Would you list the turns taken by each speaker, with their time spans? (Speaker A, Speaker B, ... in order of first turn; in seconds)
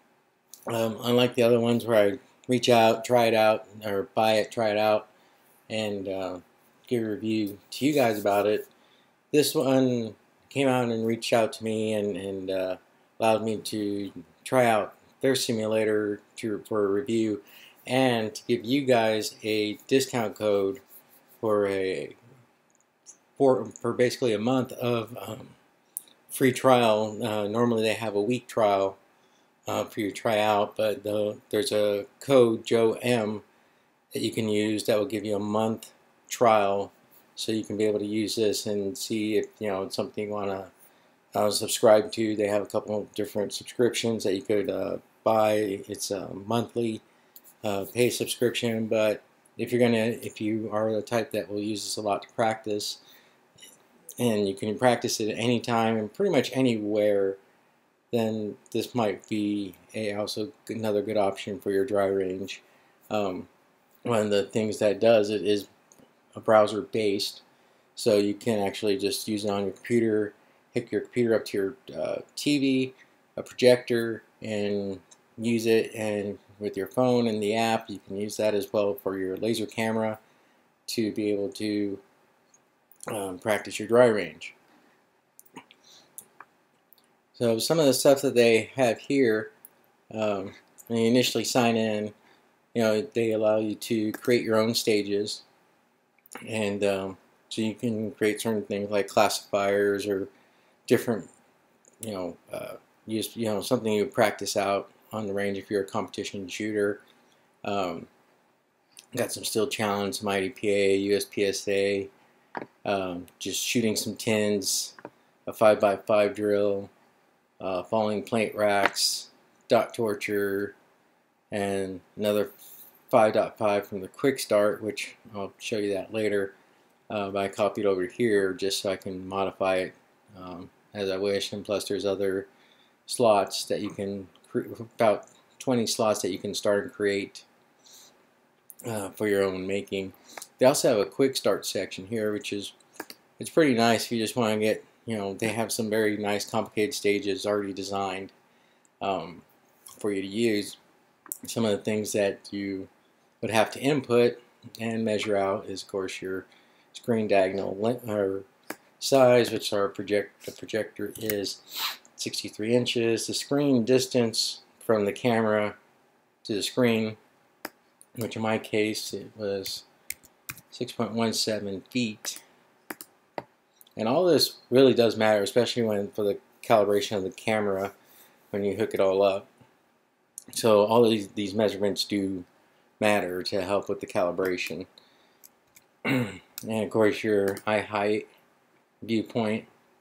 Speaker A: 0.7-5.1, 5.7-8.7, 9.3-20.8, 21.4-22.2, 23.4-25.6, 26.3-29.0, 29.7-33.4, 34.1-40.7, 41.3-47.0, 47.6-53.0, 54.2-57.4, 58.1-63.5, 64.0-65.7, 66.3-67.4, 67.9-80.2, 80.9-82.0, 83.1-84.5, 87.3-89.5, 90.1-92.1, 92.7-95.4, 96.4-100.3, 100.9-101.3, 102.0-107.0, 107.6-108.1, 109.1-112.1, 112.8-115.0, 115.5-116.9, 117.6-120.8, 121.5-122.5, 123.1-126.5, 127.1-132.5, 133.1-137.4, 138.8-142.7, 143.4-148.3, 149.0-149.4, 150.0-150.8, 151.4-152.9, 153.4-158.5, 159.0-165.8, 166.4-167.2, 168.2-169.8, 170.7-172.4, 173.9-177.9, 178.5-179.5, 180.5-182.5, 183.0-184.9, 186.0-188.3, 189.0-189.7